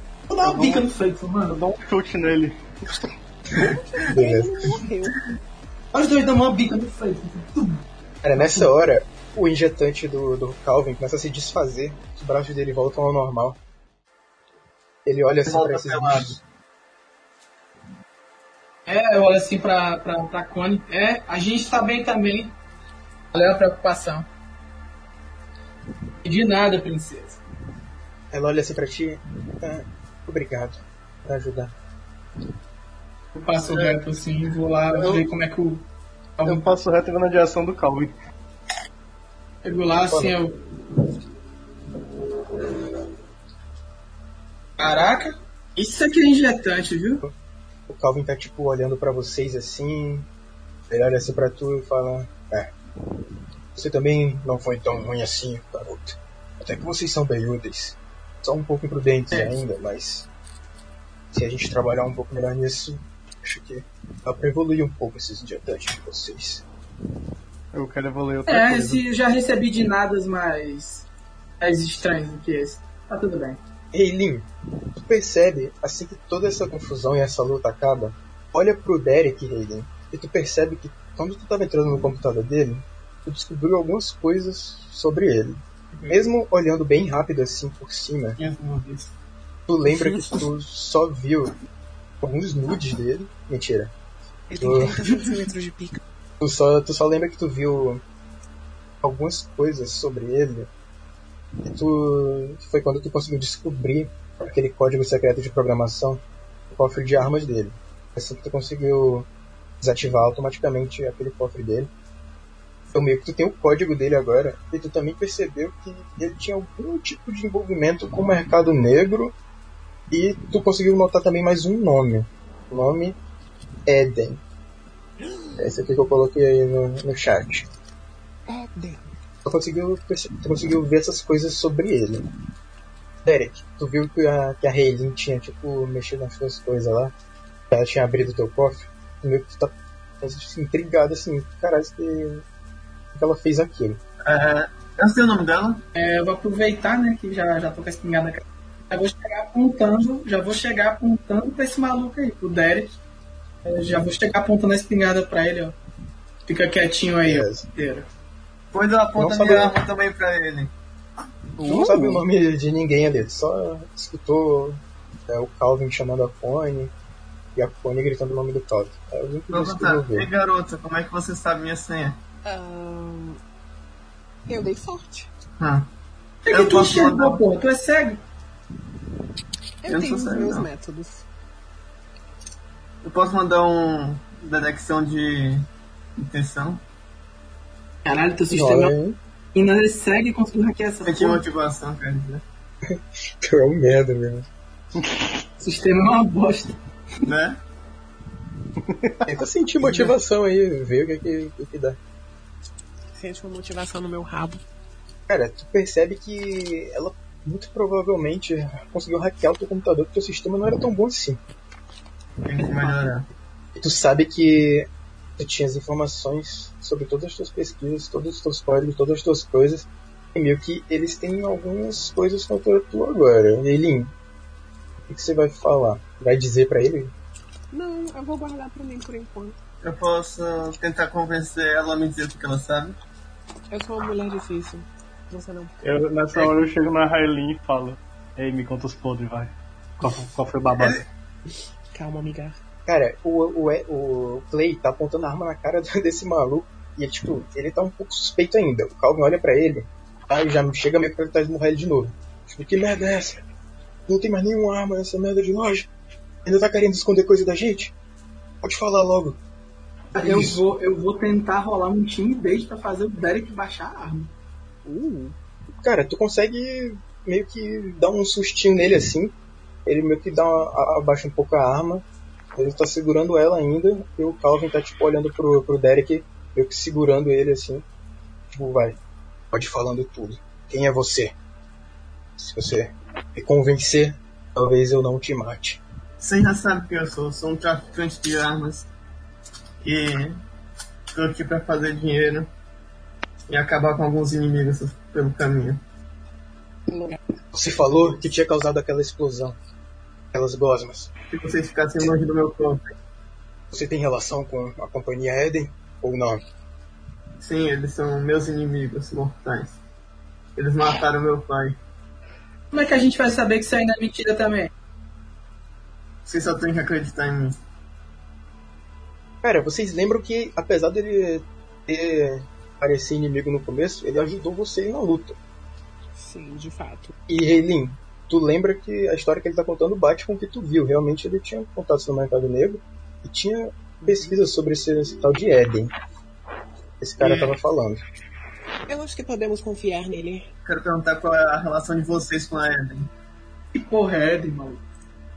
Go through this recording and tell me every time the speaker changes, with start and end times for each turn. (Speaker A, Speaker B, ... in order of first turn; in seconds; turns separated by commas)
Speaker A: 0.3-1.6, Speaker B: 0.4-0.9, Speaker B: 1.5-2.6, Speaker C: 3.5-5.2, Speaker D: 4.1-4.7, Speaker A: 5.9-7.8, Speaker D: 8.2-13.6, Speaker A: 8.4-8.6, Speaker D: 15.0-16.4, Speaker E: 15.4-16.4, Speaker A: 18.9-22.6, Speaker A: 23.3-24.3, Speaker A: 26.2-27.4, Speaker D: 28.3-31.7, Speaker A: 33.3-35.9, Speaker B: 33.7-34.0, Speaker B: 34.9-35.2, Speaker A: 36.4-36.6, Speaker B: 36.5-38.1, Speaker A: 39.6-40.6, Speaker D: 40.1-40.3, Speaker A: 44.8-47.2, Speaker D: 47.9-50.3, Speaker D: 50.9-52.7, Speaker D: 53.7-60.3, Speaker D: 61.3-66.6, Speaker B: 67.7-69.0, Speaker A: 68.5-71.1, Speaker A: 71.6-73.6, Speaker D: 73.9-88.4, Speaker E: 88.4-89.1, Speaker D: 89.7-91.5, Speaker C: 90.0-90.4, Speaker D: 92.2-93.9, Speaker C: 94.5-96.0, Speaker D: 94.6-95.0, Speaker D: 96.4-98.0, Speaker D: 99.0-100.7, Speaker D: 101.6-109.3, Speaker D: 109.8-111.9, Speaker D: 112.9-119.3, Speaker D: 120.1-123.2, Speaker D: 123.8-124.4, Speaker D: 125.6-127.7, Speaker C: 128.5-129.0, Speaker D: 129.4-132.3, Speaker D: 133.2-137.1, Speaker D: 137.7-142.4, Speaker D: 143.1-144.0, Speaker E: 144.2-145.8, Speaker A: 145.9-152.9, Speaker A: 153.6-155.8, Speaker A: 156.4-158.1, Speaker D: 157.2-157.7, Speaker E: 158.7-160.7, Speaker D: 159.2-159.8, Speaker C: 161.6-162.2, Speaker D: 161.6-166.9, Speaker D: 167.6-170.3, Speaker E: 169.5-172.2, Speaker C: 172.4-173.4, Speaker C: 174.5-175.3, Speaker E: 175.6-175.9, Speaker A: 176.4-178.2, Speaker E: 176.5-177.4, Speaker C: 179.8-181.2, Speaker E: 179.9-180.7, Speaker E: 183.0-186.8, Speaker A: 188.0-188.9, Speaker D: 188.5-189.2, Speaker A: 189.5-191.4, Speaker E: 191.0-192.4, Speaker D: 192.8-194.4, Speaker B: 195.0-195.3, Speaker A: 195.6-196.8, Speaker E: 197.2-197.6, Speaker B: 198.8-199.3, Speaker D: 199.3-202.0, Speaker C: 203.2-204.6, Speaker D: 205.3-211.4, Speaker E: 212.4-213.3, Speaker D: 213.8-224.1, Speaker D: 225.1-227.1, Speaker C: 227.7-229.6, Speaker E: 229.8-233.0, Speaker C: 233.7-235.8, Speaker B: 235.8-241.0, Speaker E: 240.8-241.0, Speaker C: 241.9-242.6, Speaker D: 242.8-253.4, Speaker D: 254.1-255.9, Speaker D: 256.4-257.9, Speaker D: 258.6-259.4, Speaker A: 260.1-264.3, Speaker D: 260.2-260.7, Speaker C: 264.8-265.3, Speaker D: 265.7-269.3, Speaker D: 269.9-277.8, Speaker D: 278.5-279.0, Speaker D: 279.5-281.3, Speaker D: 282.4-285.8, Speaker E: 286.2-288.9, Speaker E: 289.8-290.4, Speaker E: 291.1-292.5, Speaker E: 293.5-295.8, Speaker C: 296.9-297.2, Speaker D: 297.5-299.6, Speaker E: 297.9-298.2, Speaker D: 300.3-301.1, Speaker E: 301.3-302.9, Speaker D: 303.7-306.4, Speaker E: 307.4-309.8, Speaker E: 310.6-311.8, Speaker A: 312.7-314.7, Speaker E: 316.2-317.6, Speaker D: 319.4-325.4, Speaker C: 326.2-327.1, Speaker D: 327.3-335.9, Speaker C: 334.0-334.3, Speaker D: 337.0-338.0, Speaker E: 337.2-337.5, Speaker C: 338.9-340.4, Speaker E: 340.6-343.1, Speaker A: 343.7-344.8